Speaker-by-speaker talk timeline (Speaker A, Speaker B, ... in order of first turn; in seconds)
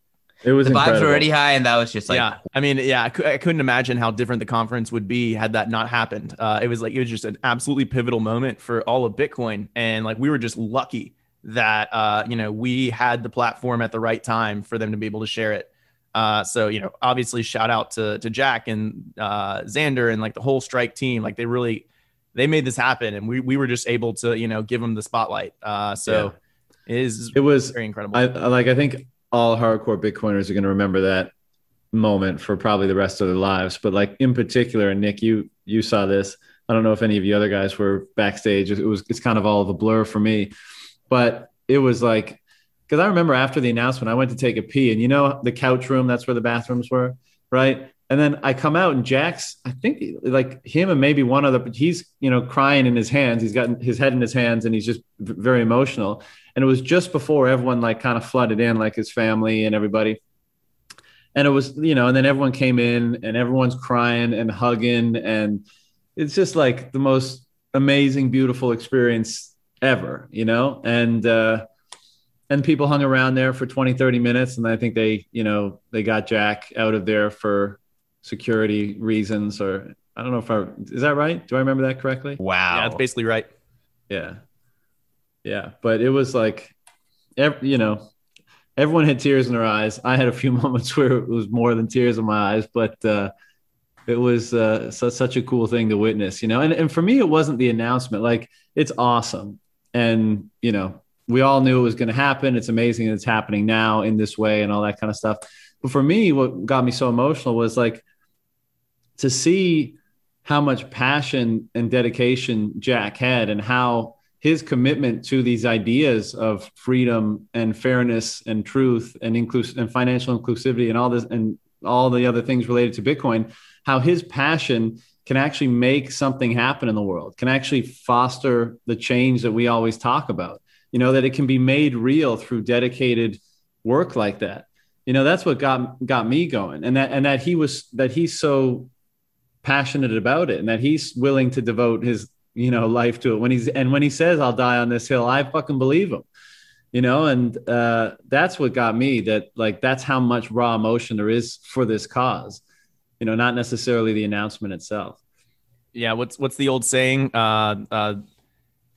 Speaker A: 0.4-1.3, 26.1-26.3, 27.3-31.3, 31.9-40.5, 41.1-60.2, 61.3-65.6, 66.2-71.7, 72.5-82.4, 84.1-84.4, 85.4-86.7, 87.4-88.1, 88.8-93.3, 94.1-108.0, 109.2-138.9, 139.6-146.2, 146.9-152.6, 153.2-155.2
Speaker B: 0.6-2.3, 82.4-83.0
Speaker C: 2.1-26.3, 26.9-28.2, 82.7-83.5, 155.9-158.2